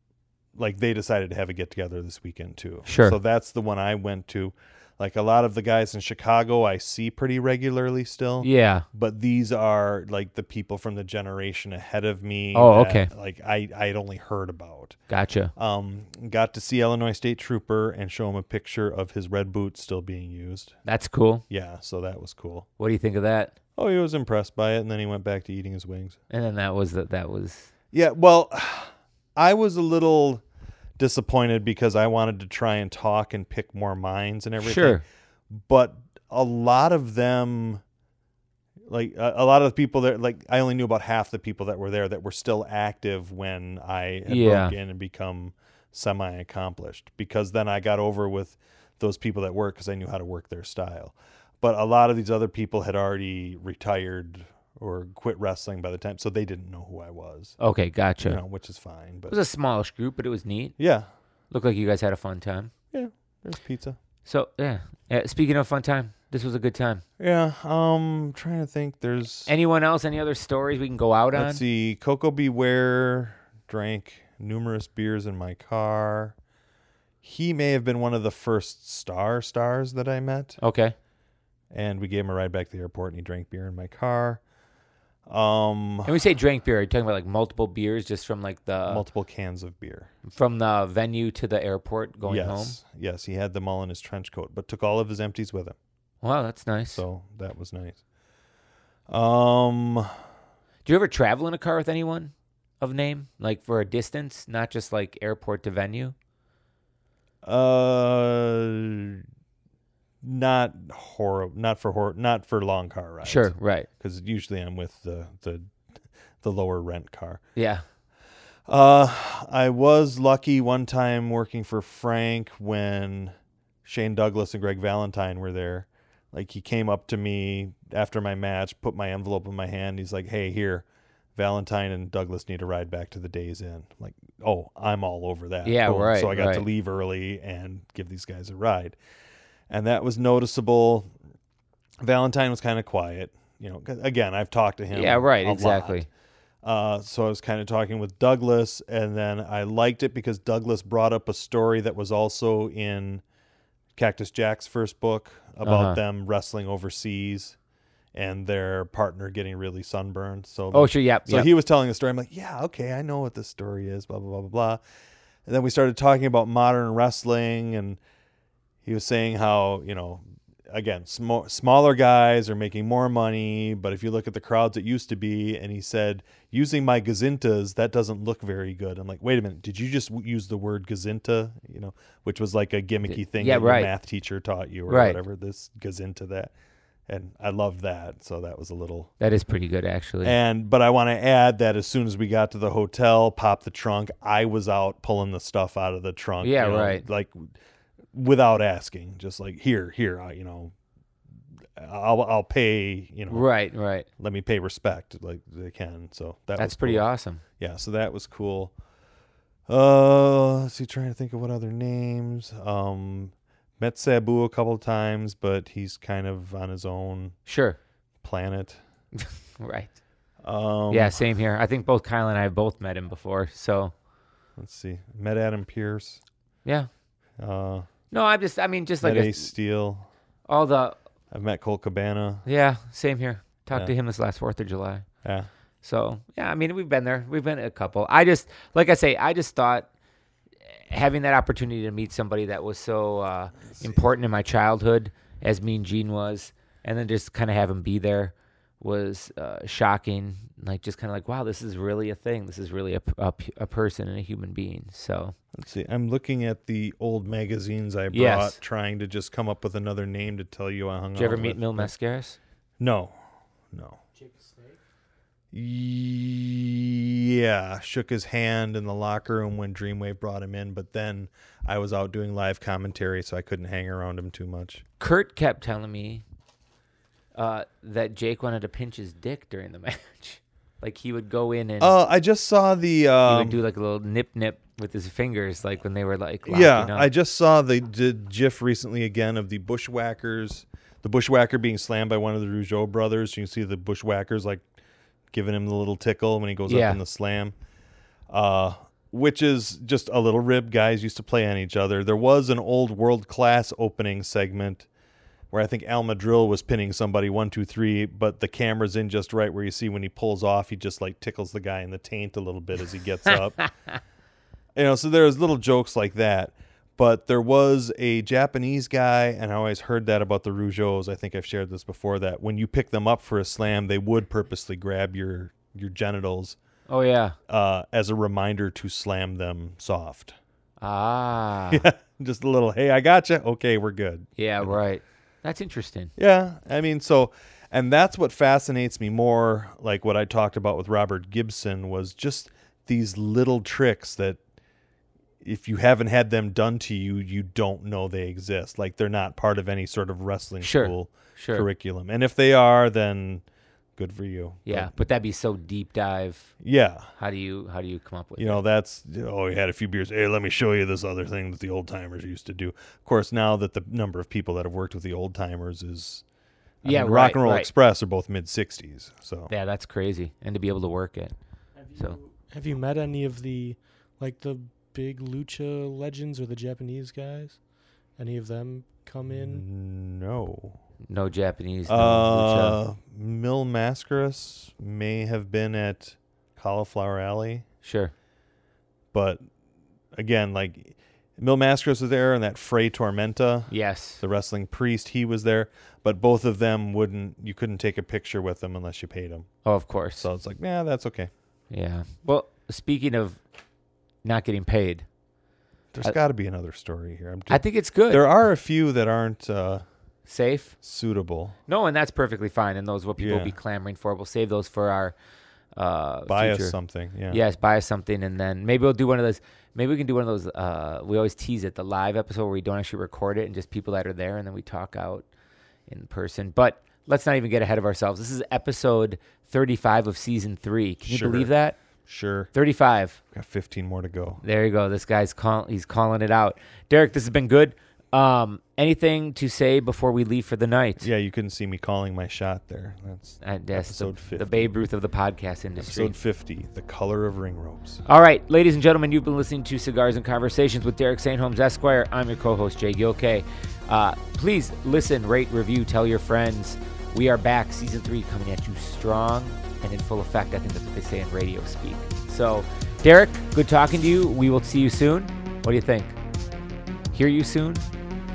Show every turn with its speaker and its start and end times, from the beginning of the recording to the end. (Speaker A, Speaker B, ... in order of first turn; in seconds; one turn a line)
Speaker A: 0.5-15.0
Speaker B: 2.9-3.2
Speaker B: 8.4-8.8
Speaker B: 12.5-13.1
Speaker B: 15.1-15.5
Speaker A: 15.6-20.8
Speaker B: 20.8-21.4
Speaker A: 21.5-22.7
Speaker B: 22.8-23.6
Speaker A: 23.8-26.1
Speaker B: 26.3-27.7
Speaker A: 27.9-30.4
Speaker A: 31.0-37.8
Speaker B: 34.6-35.0
Speaker A: 38.9-57.5
Speaker B: 44.3-44.7
Speaker B: 57.6-58.4
Speaker A: 58.2-59.4
Speaker B: 59.3-60.8
Speaker A: 60.8-61.1
Speaker B: 61.5-62.7
Speaker A: 62.9-64.0
Speaker B: 64.2-67.0
Speaker A: 67.2-69.5
Speaker B: 69.5-71.6
Speaker A: 71.3-76.3
Speaker A: 77.2-80.6
Speaker B: 80.6-80.9
Speaker A: 81.7-84.4
Speaker A: 85.3-86.1
Speaker B: 86.0-89.0
Speaker A: 88.8-90.1
Speaker B: 90.3-92.8
Speaker A: 92.2-95.8
Speaker B: 96.2-97.0
Speaker A: 96.9-98.0
Speaker A: 99.1-100.1
Speaker B: 100.8-106.1
Speaker A: 107.4-109.2
Speaker A: 110.2-115.7
Speaker B: 113.2-113.9
Speaker A: 116.4-117.4
Speaker B: 117.5-117.8
Speaker A: 118.7-130.8
Speaker A: 131.3-138.9
Speaker B: 135.6-136.6
Speaker A: 139.7-141.1
Speaker A: 142.0-146.1
Speaker B: 144.9-146.1
Speaker A: 146.6-153.2
Speaker A: 153.9-157.6
Speaker B: 155.6-156.0
Speaker A: 158.1-164.8
Speaker B: 160.7-161.5
Speaker A: 165.5-168.0
Speaker A: 168.8-186.5
Speaker B: 183.1-183.9
Speaker B: 184.9-185.2
Speaker A: 187.1-189.1
Speaker B: 189.2-190.3
Speaker A: 190.2-197.5
Speaker B: 196.4-197.0
Speaker A: 198.1-200.7
Speaker A: 201.8-203.5
Speaker B: 203.3-204.1
Speaker A: 204.2-207.0
Speaker B: 206.6-207.4
Speaker A: 207.6-208.7
Speaker A: 209.7-217.3
Speaker B: 217.4-217.8
Speaker A: 218.2-218.8
Speaker B: 219.2-219.9
Speaker A: 220.4-221.2
Speaker B: 220.9-223.9
Speaker A: 224.6-226.2
Speaker A: 227.4-227.9
Speaker B: 228.1-229.5
Speaker A: 229.0-230.1
Speaker B: 230.5-231.0
Speaker A: 231.3-232.4
Speaker B: 232.4-235.1
Speaker A: 235.2-235.5
Speaker B: 235.8-239.9
Speaker B: 240.7-255.3
Speaker A: 255.6-261.9
Speaker B: 258.1-258.6
Speaker B: 261.1-262.4
Speaker A: 262.8-263.1
Speaker A: 263.7-264.0
Speaker C: 264.1-264.8
Speaker A: 265.5-274.8
Speaker B: 275.0-276.2
Speaker B: 277.4-281.9
Speaker A: 281.8-283.6
Speaker B: 283.2-287.1
Speaker A: 286.4-294.6
Speaker A: 295.3-297.5
Speaker B: 296.7-297.0
Speaker A: 298.3-304.9
Speaker A: 305.5-313.6
Speaker A: 314.8-326.6
Speaker B: 326.9-327.4
Speaker A: 327.5-330.4
Speaker B: 330.8-331.8
Speaker A: 331.7-334.8
Speaker B: 334.4-336.1
Speaker A: 336.2-344.4
Speaker A: 345.4-353.4
Speaker B: 350.6-351.6
Speaker A: 354.0-354.9
Speaker B: 354.7-356.6
Speaker A: 356.6-357.1
Speaker B: 357.1-358.6
Speaker A: 358.4-366.2
Speaker B: 366.8-367.7
Speaker A: 366.8-369.5
Speaker B: 369.5-371.3
Speaker C: 371.8-377.6
Speaker C: 378.2-379.6
Speaker A: 379.2-380.8
Speaker B: 381.1-382.8
Speaker A: 381.9-387.6
Speaker B: 387.8-388.1
Speaker A: 389.1-389.4
Speaker A: 390.1-399.5
Speaker B: 393.7-394.2
Speaker B: 399.6-400.3
Speaker A: 400.2-401.3
Speaker B: 401.7-403.4
Speaker B: 404.2-405.1
Speaker A: 405.9-409.8
Speaker B: 407.5-408.3
Speaker B: 410.3-410.8
Speaker A: 410.8-411.6
Speaker B: 411.7-415.1
Speaker A: 413.2-413.5
Speaker B: 415.7-416.8
Speaker A: 416.3-417.4
Speaker B: 417.3-425.2
Speaker B: 425.9-431.8
Speaker A: 431.0-431.5
Speaker A: 432.1-432.5
Speaker B: 432.5-433.2
Speaker A: 433.3-434.4
Speaker B: 434.4-441.1
Speaker A: 441.0-444.7
Speaker B: 443.4-446.1
Speaker A: 445.8-448.0
Speaker B: 448.1-466.2
Speaker B: 467.1-467.8